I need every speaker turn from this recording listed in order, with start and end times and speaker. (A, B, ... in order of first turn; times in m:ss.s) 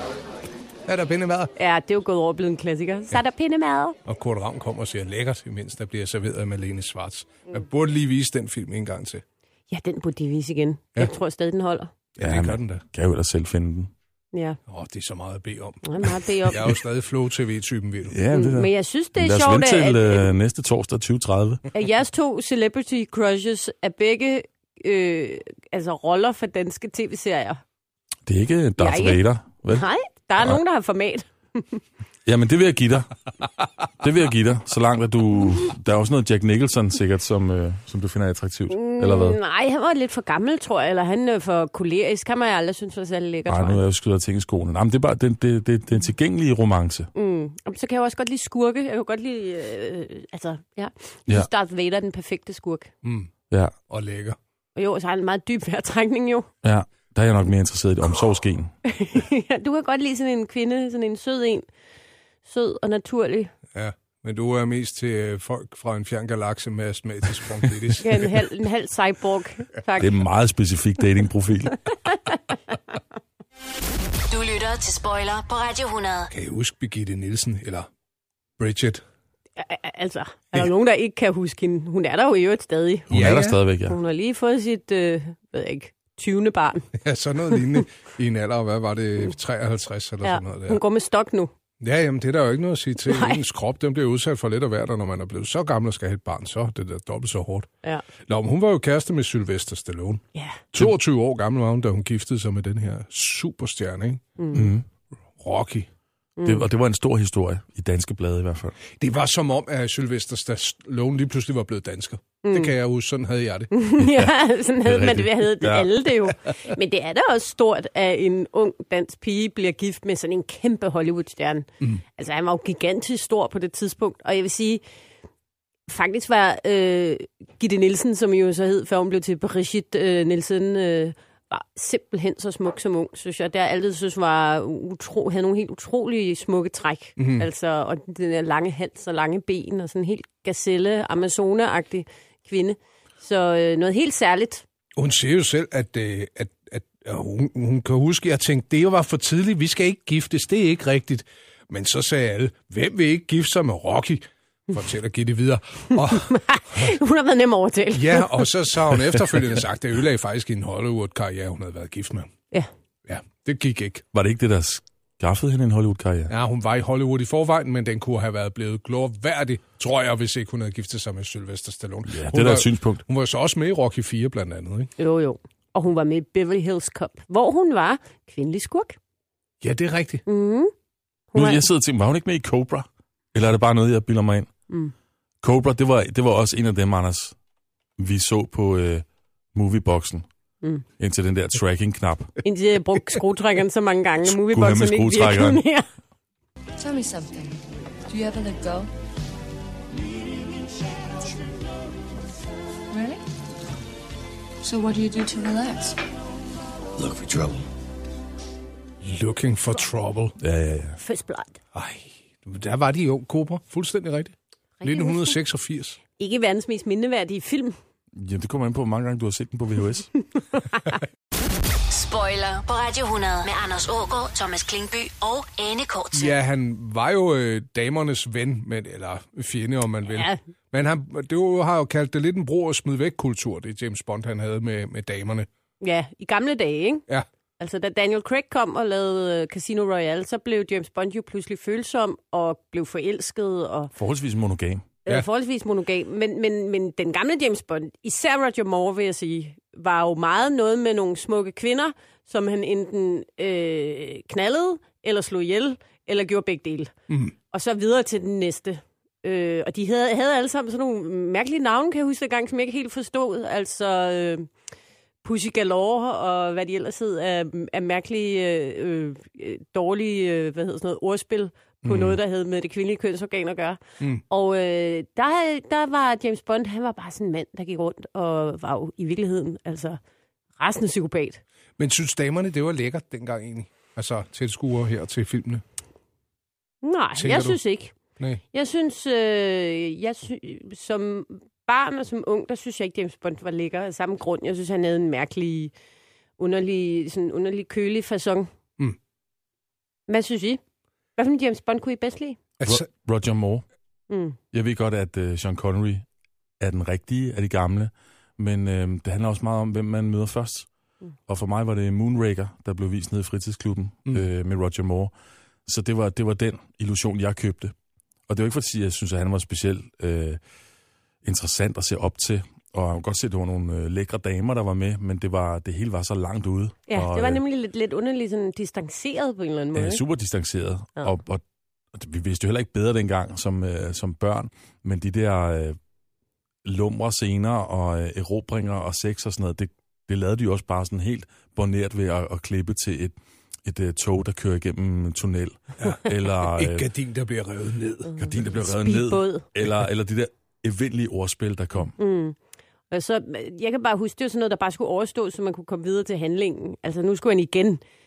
0:00.9-0:01.5 A
0:01.6-0:04.0 B
0:04.0-0:09.2 A
0:09.7-0:11.9 B
0:12.2-0:12.8 A
0:12.2-0:13.9 C
0:14.3-0:14.6 B
0:14.7-0:15.8 A
0:15.8-0:16.7 B
0:16.5-0:18.2 A
0:18.1-0:21.6 C
0:18.3-0:20.3 B
0:21.7-0:27.6 B
0:28.2-0:29.8 C
0:28.8-0:31.8 B
0:32.2-0:33.1 C
0:34.0-0:39.4 C
0:38.7-0:43.8 B
0:43.5-0:47.1 C
0:47.1-0:52.9 B
0:53.0-0:53.3 A
0:53.9-0:54.4 A
0:54.8-0:56.5 B
0:56.6-0:58.7 C
0:58.8-1:01.6 B
1:02.4-1:03.5 B
1:03.7-1:08.3 A
1:08.0-1:10.2 B
1:10.0-1:11.9 C
1:14.3-1:16.3 D
1:16.3-1:17.9 A
1:18.6-1:19.0 A
1:19.6-1:26.9 B
1:23.1-1:24.0 C
1:23.1-1:23.6 A
1:27.0-1:30.8 A
1:30.2-1:31.5 B
1:31.8-1:37.7 A
1:33.1-1:33.4 B
1:38.2-1:44.2 A
1:40.3-1:40.6 B
1:44.4-1:44.7 B
1:44.5-1:44.8 C
1:45.4-1:45.9 A
1:46.4-1:46.6 B
1:46.4-1:48.8 C
1:49.0-1:53.7 A
1:52.4-1:52.7 B
1:53.7-2:04.8 B
1:54.0-1:56.1 C
2:05.9-2:24.6 B
2:17.2-2:17.5 A
2:25.0-2:36.9 A
2:36.1-2:38.5 B
2:37.9-2:42.3 A
2:43.0-2:44.0 A
2:44.1-2:46.3 C
2:46.3-2:54.9 A
2:52.0-2:53.0 C
2:55.0-2:59.0 B
2:59.6-3:00.2 A
3:00.2-3:00.7 B
3:01.3-3:01.6 B
3:01.3-3:04.5 C
3:05.4-3:07.3 C
3:08.0-3:10.2 C
3:11.0-3:12.4 C
3:12.4-3:15.8 B
3:14.2-3:15.6 C
3:16.8-3:18.9 E
3:22.9-3:23.2 E
3:24.6-3:26.0 E
3:29.0-3:30.4 A
3:30.4-3:31.0 C
3:31.0-3:31.6 B
3:31.7-3:36.0 A
3:34.8-3:35.4 B
3:36.2-3:37.8 B
3:38.1-3:40.1 C
3:41.9-3:46.3 D
3:46.1-3:55.5 A
3:50.1-3:50.4 B
3:55.8-3:57.0 B
3:57.6-4:03.9 B
4:04.0-4:04.9 C
4:05.0-4:16.9 B
4:17.5-4:24.5 B
4:25.2-4:40.0 B
4:31.9-4:32.2 C
4:40.6-4:41.4 B
4:41.8-4:45.6 A
4:46.8-4:47.9 B
4:47.2-4:47.6 A
4:48.5-4:55.7 B
4:56.4-4:58.5 B
5:00.1-5:00.6 B
5:01.2-5:02.4 B
5:02.6-5:02.9 A
5:02.6-5:03.6 C
5:04.1-5:04.4 B
5:04.5-5:06.0 C
5:06.6-5:10.7 C
5:11.3-5:15.1 C
5:15.6-5:17.7 C
5:18.3-5:20.4 C
5:21.2-5:27.4 C
5:26.9-5:30.0 B
5:29.7-5:35.8 C
5:36.6-5:43.1 C
5:43.6-5:46.9 C
5:45.8-5:48.2 A
5:48.0-5:49.4 B
5:48.2-5:51.9 C
5:52.0-5:52.4 B
5:52.9-5:57.8 B